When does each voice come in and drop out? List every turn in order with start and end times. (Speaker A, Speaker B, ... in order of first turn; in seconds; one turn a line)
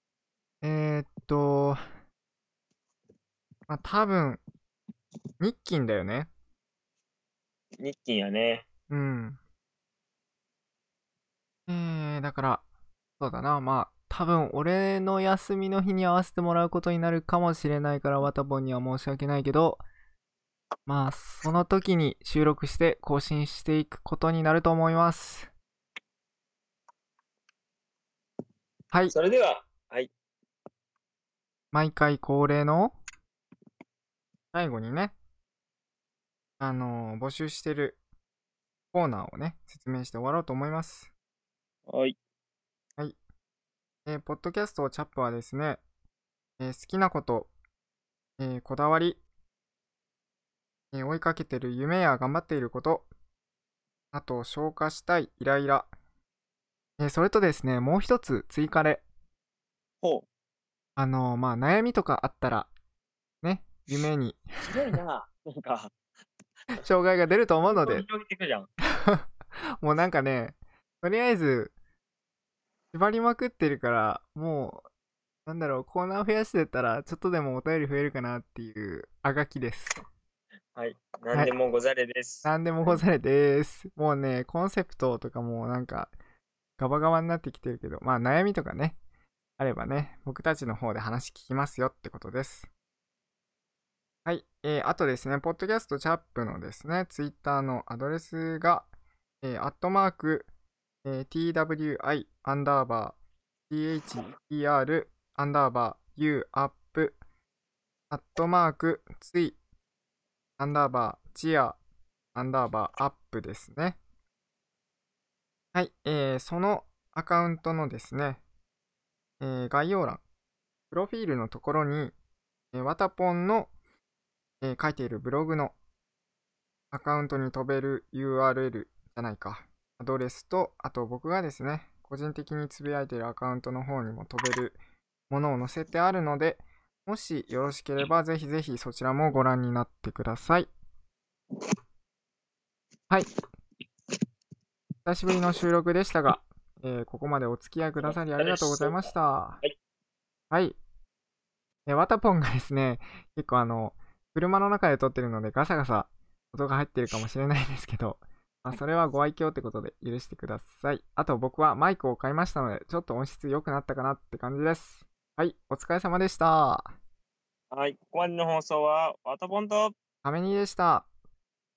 Speaker A: 0.6-1.8
Speaker A: 3.7-4.4
Speaker A: 5.4-6.3
Speaker B: 7.8-8.7
Speaker A: 8.9-9.4
Speaker A: 11.7-12.6
Speaker A: 13.2-19.8
Speaker A: 20.9-25.5
Speaker B: 29.1-30.1
Speaker A: 31.7-33.0
Speaker A: 34.5-35.1
Speaker A: 36.6-38.0
Speaker A: 38.9-41.1
Speaker B: 41.9-42.2
Speaker A: 44.0-45.8
Speaker A: 46.6-47.5
Speaker A: 48.4-49.2
Speaker A: 50.9-53.1
Speaker A: 54.1-55.9
Speaker A: 57.0-59.0
Speaker B: 60.0-60.3
Speaker A: 61.0-62.7
Speaker A: 63.4-64.9
Speaker B: 64.6-65.9
Speaker A: 66.8-68.0
Speaker B: 67.6-68.7
Speaker A: 68.8-69.3
Speaker A: 69.8-71.7
Speaker A: 72.9-74.9
Speaker A: 75.5-80.0
Speaker B: 80.7-83.0
Speaker A: 82.4-86.1
Speaker A: 86.8-89.0
Speaker A: 89.6-92.7
Speaker A: 94.2-98.9
Speaker A: 99.4-100.5
Speaker A: 101.0-103.2
Speaker A: 103.7-107.2
Speaker A: 108.1-109.6
Speaker A: 110.6-111.8
Speaker A: 112.3-114.0
Speaker A: 115.7-118.4
Speaker A: 119.4-120.2
Speaker A: 120.9-122.1
Speaker A: 122.7-123.7
Speaker A: 124.6-125.7
Speaker A: 126.9-134.8
Speaker A: 135.3-140.7
Speaker A: 145.1-149.6
Speaker B: 148.0-149.7
Speaker A: 150.5-150.8
Speaker A: 151.8-166.9
Speaker B: 167.7-169.9
Speaker A: 170.2-171.1